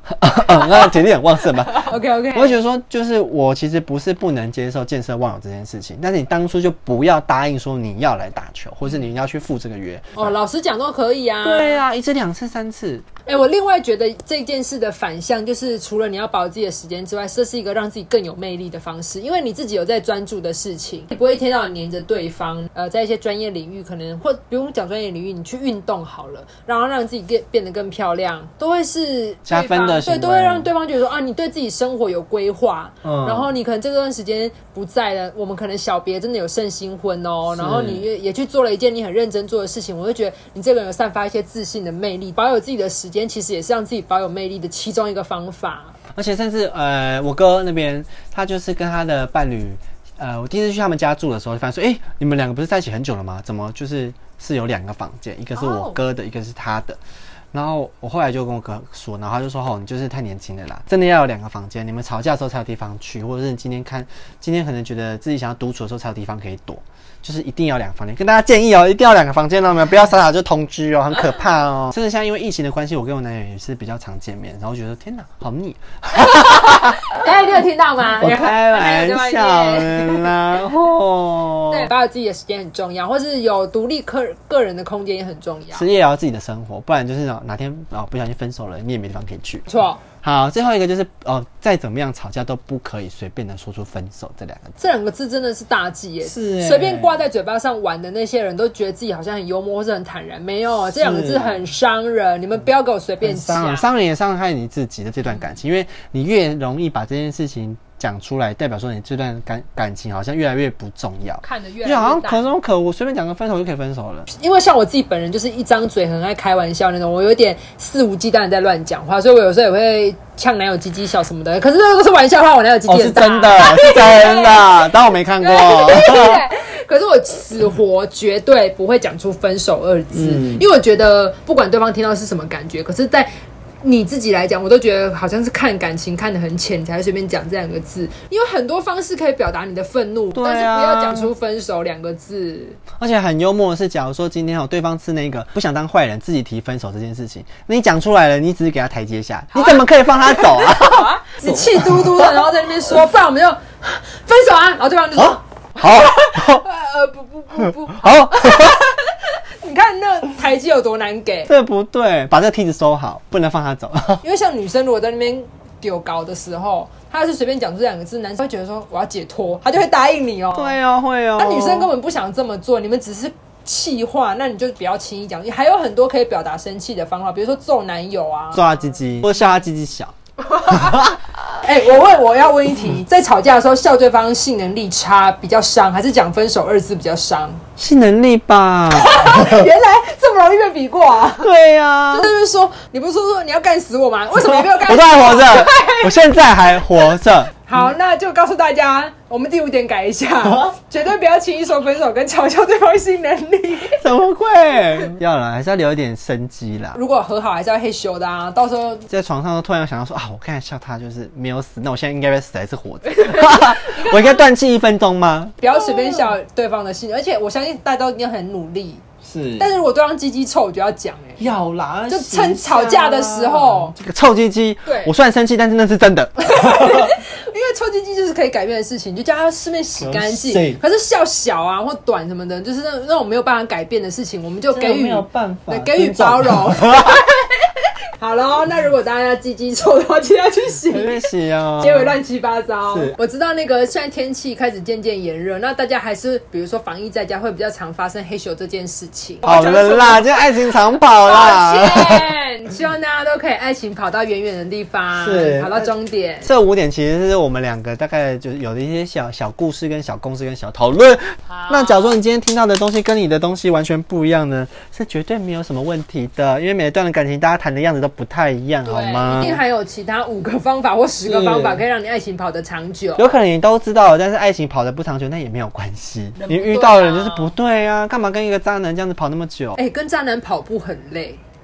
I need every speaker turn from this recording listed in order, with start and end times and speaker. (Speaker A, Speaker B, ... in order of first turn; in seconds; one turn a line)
Speaker A: 0.1-10.3
Speaker B: 0.4-2.6
Speaker B: 10.1-11.8
Speaker A: 11.4-13.1
Speaker B: 13.3-46.0
Speaker A: 29.5-30.7
Speaker A: 33.0-33.5
Speaker A: 37.5-38.1
Speaker A: 46.1-57.0
Speaker B: 55.6-56.0
Speaker A: 57.5-77.1
Speaker B: 76.2-80.6
Speaker A: 78.1-81.9
Speaker B: 81.7-85.9
Speaker A: 85.7-89.7
Speaker B: 89.7-90.0
Speaker A: 90.2-94.8
Speaker B: 94.8-103.9
Speaker A: 96.2-97.2
Speaker A: 100.9-101.6
Speaker A: 103.2-114.3
Speaker B: 111.4-112.5
Speaker B: 114.3-124.7
Speaker A: 122.9-126.5
Speaker B: 125.4-133.3
Speaker A: 130.1-130.7
Speaker B: 133.8-142.8
Speaker A: 140.3-141.3
Speaker A: 143.0-152.5
Speaker B: 149.5-161.5
Speaker A: 155.2-156.7
Speaker A: 157.6-158.8
Speaker A: 161.5-164.2
Speaker B: 164.2-170.8
Speaker A: 170.5-171.9
Speaker B: 171.4-179.2
Speaker A: 178.5-180.1
Speaker B: 180.5-187.6
Speaker A: 180.7-181.2
Speaker A: 187.8-189.7
Speaker B: 188.9-191.5
Speaker A: 191.4-192.3
Speaker B: 192.1-196.1
Speaker A: 194.5-197.6
Speaker B: 197.6-204.0
Speaker A: 203.9-207.0
Speaker B: 206.9-209.1
Speaker A: 209.1-216.3
Speaker B: 213.1-214.4
Speaker B: 215.6-219.0
Speaker A: 219.2-219.7
Speaker B: 219.6-221.5
Speaker A: 221.4-227.1
Speaker B: 222.1-223.9
Speaker B: 224.9-225.1
Speaker B: 226.4-237.6
Speaker A: 230.0-230.8
Speaker A: 234.7-237.2
Speaker B: 238.2-250.7
Speaker A: 240.9-242.2
Speaker A: 242.9-243.2
Speaker A: 249.4-252.3
Speaker B: 251.2-256.5
Speaker A: 255.2-255.9
Speaker A: 256.4-269.6
Speaker B: 261.5-262.2
Speaker B: 268.8-273.3
Speaker A: 271.2-271.8
Speaker A: 273.2-279.8
Speaker B: 276.4-277.6
Speaker B: 279.8-281.4